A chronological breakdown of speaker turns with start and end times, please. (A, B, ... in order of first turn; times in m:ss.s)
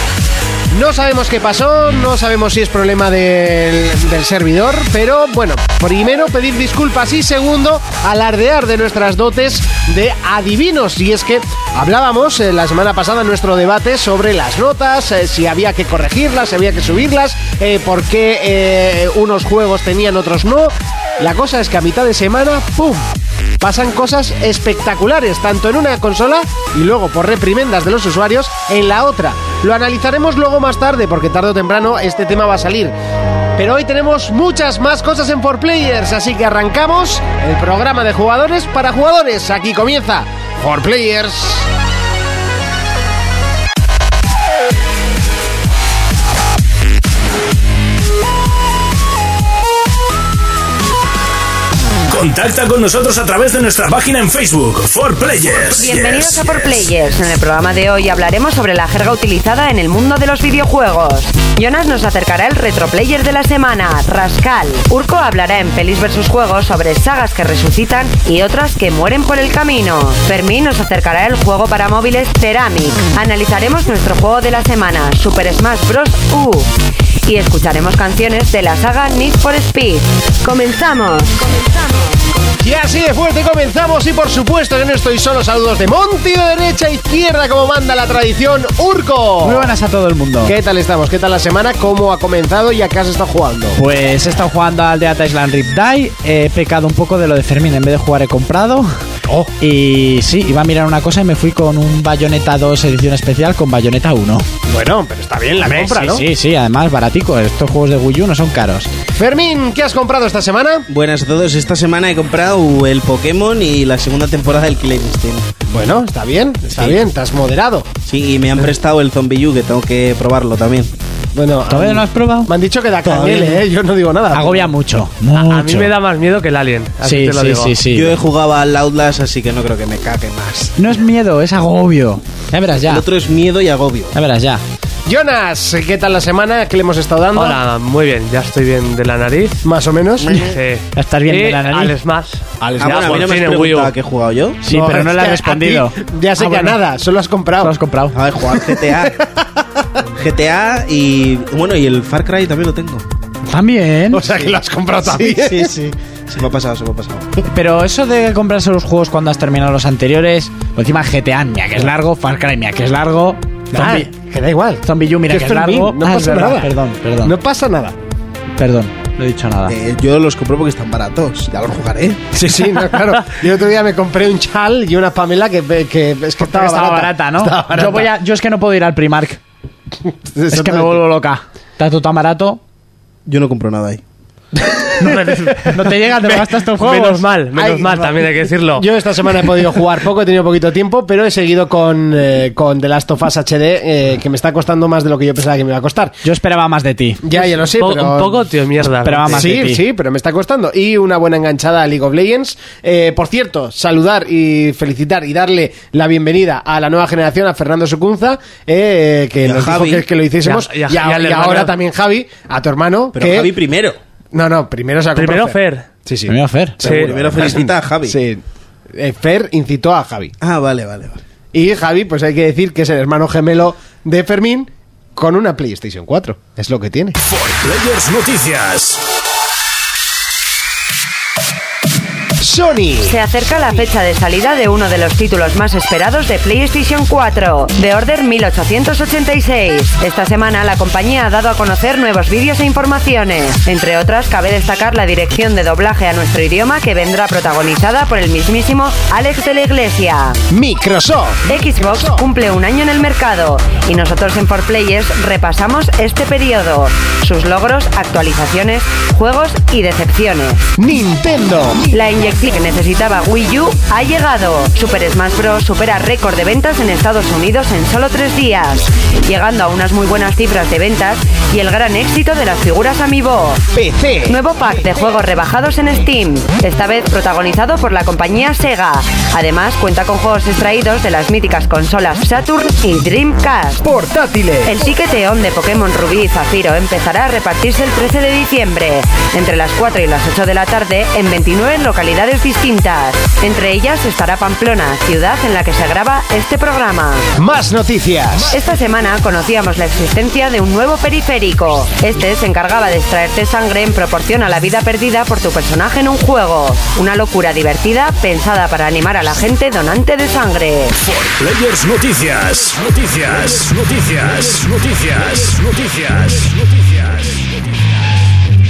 0:00.7-0:32.9 A
0:33.6-0:41.7 A
0:52.1-0:56.9 B
0:55.7-1:16.7 C
1:17.2-1:21.6 C
1:22.6-1:29.7 A
1:29.4-1:30.6 D
1:30.4-1:33.8 A
1:33.7-1:39.0 D
1:39.6-1:44.5 D
1:44.7-1:46.2 A
1:45.6-1:48.9 D
1:49.1-1:50.8 A
1:50.9-1:55.5 E
1:55.7-1:57.9 A
1:56.7-1:57.0 E
1:58.0-2:00.9 E
2:01.3-2:04.7 A
2:01.7-2:02.5 D
2:03.1-2:03.6 E
2:04.3-2:05.9 D
2:05.3-2:07.8 F
2:07.0-2:08.2 D
2:07.9-2:10.8 E
2:10.8-2:13.0 D
2:12.8-2:14.1 E
2:14.1-2:14.6 D
2:15.0-2:17.6 A
2:17.3-2:19.6 F
2:19.6-2:20.4 A
2:20.3-2:20.6 E
2:20.3-2:23.9 F
2:20.9-2:21.9 D
2:22.6-2:23.1 A
2:22.8-2:24.6 E
2:24.6-2:26.8 D
2:24.7-2:27.7 A
2:27.6-2:28.2 D
2:28.1-2:29.2 E
2:28.8-2:29.4 A
2:30.2-2:33.0 E
2:33.5-2:34.3 D
2:34.1-2:35.7 A
2:35.0-2:37.5 E
2:37.5-2:44.1 D
2:43.7-2:46.7 A
2:44.8-2:47.4 D
2:47.2-2:48.0 A
2:48.6-2:49.8 D
2:49.6-2:52.2 E
2:52.3-2:58.1 A
2:56.4-2:59.4 D
3:00.3-3:01.0 A
3:00.5-3:02.6 D
3:03.2-3:04.0 E
3:04.6-3:05.4 A
3:05.0-3:08.1 D
3:05.4-3:05.7 F
3:06.3-3:08.8 F
3:07.6-3:08.1 A
3:08.7-3:16.2 A
3:16.2-3:17.4 D
3:17.2-3:18.4 A
3:17.6-3:19.5 F
3:19.0-3:19.8 D
3:19.3-3:33.5 A
3:29.4-3:30.0 E
3:30.4-3:31.7 F
3:33.1-3:34.0 E
3:34.3-3:38.4 A
3:35.2-3:35.9 F
3:36.3-3:36.8 D
3:36.8-3:37.1 F
3:36.8-3:38.2 E
3:38.9-3:40.3 A
3:40.4-3:41.2 E
3:41.5-3:47.2 A
3:47.2-3:49.0 B
3:52.4-3:53.2 A
3:53.0-4:10.4 C
4:10.5-4:12.2 A
4:11.4-4:20.6 C
4:20.8-4:21.9 A
4:21.9-4:33.6 C
4:33.7-4:34.4 A
4:34.2-4:43.8 C
4:43.8-4:44.8 A
4:44.6-4:57.3 C
4:57.4-4:58.5 A
4:58.5-5:10.9 C
5:11.0-5:17.4 B